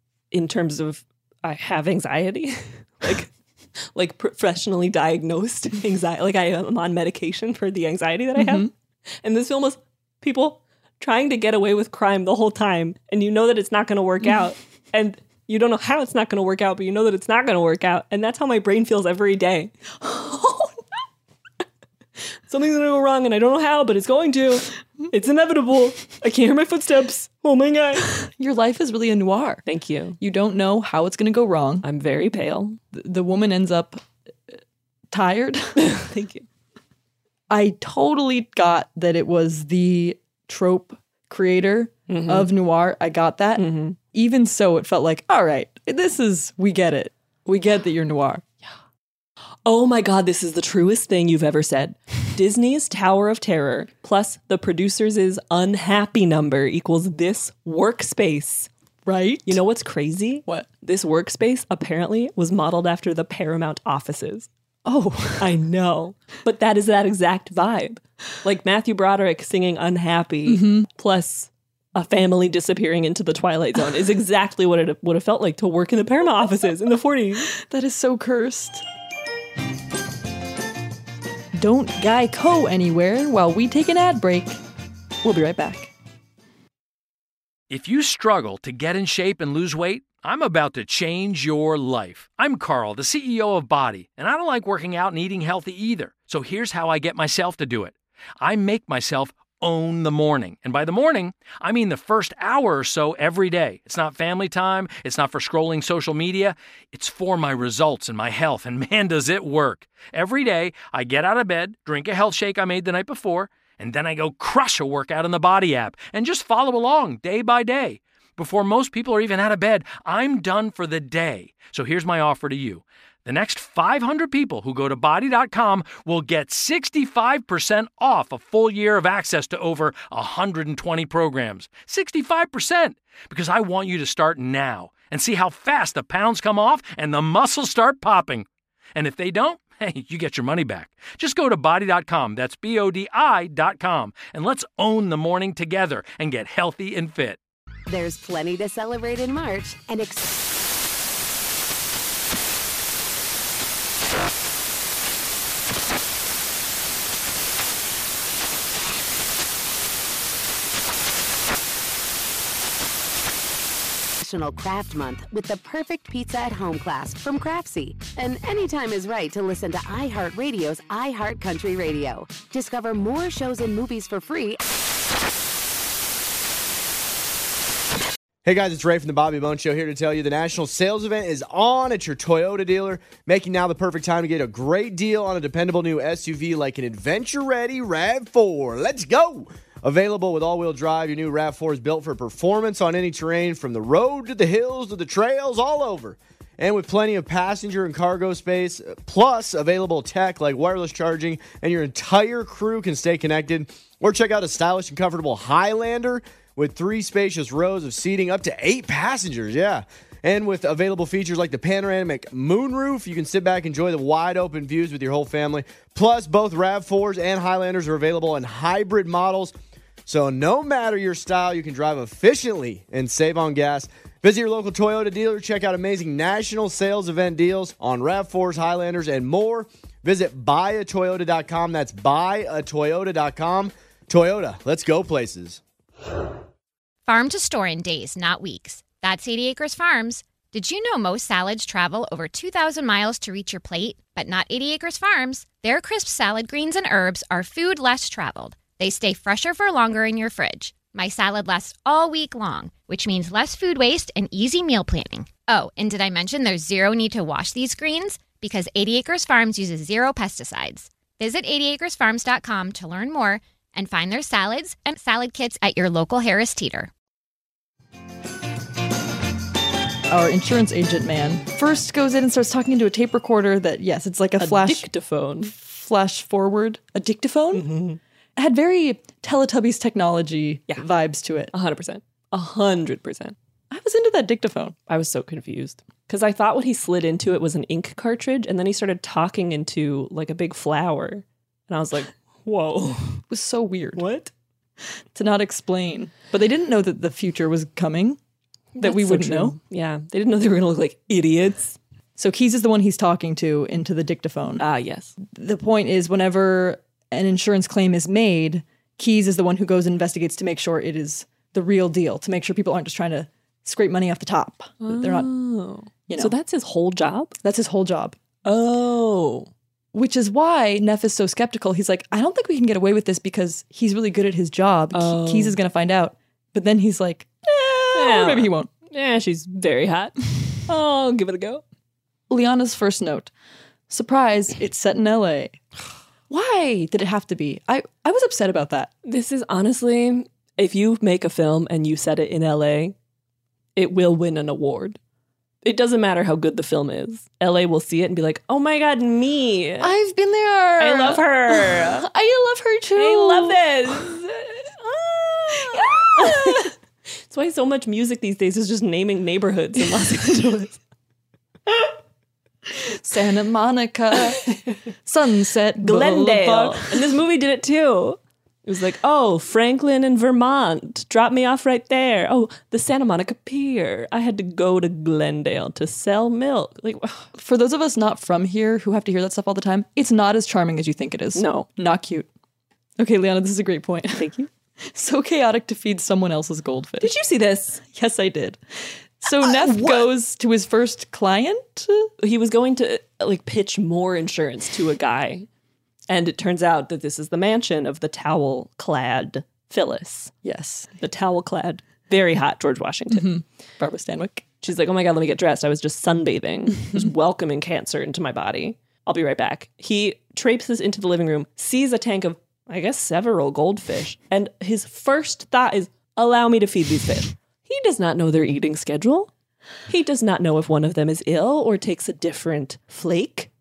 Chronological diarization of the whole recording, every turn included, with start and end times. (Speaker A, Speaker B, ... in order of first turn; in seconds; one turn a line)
Speaker A: 0.3-3.3
Speaker A: 3.9-8.7
Speaker B: 8.3-8.7
Speaker A: 9.2-19.7
Speaker B: 20.0-20.7
Speaker A: 22.5-28.2
Speaker B: 28.3-29.6
Speaker A: 29.6-30.2
Speaker B: 30.2-31.9
Speaker A: 31.8-32.8
Speaker B: 32.9-34.0
Speaker B: 35.1-35.9
Speaker A: 35.8-36.4
Speaker B: 37.5-48.4
Speaker A: 42.1-42.5
Speaker A: 43.6-44.0
Speaker A: 49.6-58.7
Speaker B: 59.0-59.6
Speaker A: 59.5-64.5
Speaker B: 64.8-65.5
Speaker A: 65.4-77.5
Speaker B: 70.5-70.9
Speaker B: 77.5-78.8
Speaker B: 81.5-84.6
Speaker B: 85.2-85.9
Speaker C: 87.7-147.4
Speaker D: 147.9-150.3
Speaker D: 164.2-174.6
Speaker E: 178.4-219.5
Speaker E: 220.1-235.6
Speaker F: 237.1-266.9
Speaker B: 270.1-274.9
Speaker A: 274.4-275.5
Speaker B: 275.4-277.7
Speaker A: 277.5-278.0
Speaker B: 278.4-281.5
Speaker A: 281.5-283.4
Speaker B: 283.7-284.8
Speaker A: 284.9-293.2
Speaker B: 293.3-294.0
Speaker A: 294.0-294.3
Speaker B: 295.1-298.2
Speaker A: 298.7-301.8
Speaker B: 298.8-299.6
Speaker B: 302.1-304.6
Speaker A: 304.6-305.1
Speaker B: 305.2-315.3
Speaker A: 314.8-317.4
Speaker B: 316.1-316.3
Speaker B: 317.4-318.2
Speaker A: 318.4-319.5
Speaker B: 319.9-328.7
Speaker A: 324.9-325.6
Speaker A: 327.9-331.6
Speaker B: 332.3-333.3
Speaker B: 333.9-335.6
Speaker B: 336.3-338.9
Speaker A: 339.0-342.9
Speaker A: 343.8-345.0
Speaker A: 345.6-349.9
Speaker B: 349.8-354.0
Speaker A: 350.8-352.1
Speaker A: 352.9-356.7
Speaker B: 355.7-356.7
Speaker A: 357.3-360.8
Speaker B: 362.7-367.1
Speaker A: 365.8-377.3
Speaker B: 377.4-382.3
Speaker A: 381.3-381.7
Speaker B: 383.0-387.1
Speaker A: 384.2-384.5
Speaker A: 387.0-387.8
Speaker B: 387.9-388.6
Speaker B: 389.2-392.1
Speaker A: 389.4-390.1
Speaker A: 392.2-395.5
Speaker A: 396.1-400.3
Speaker B: 400.4-400.9
Speaker A: 401.0-403.4
Speaker B: 403.1-404.4
Speaker A: 404.6-419.3
Speaker A: 419.9-423.5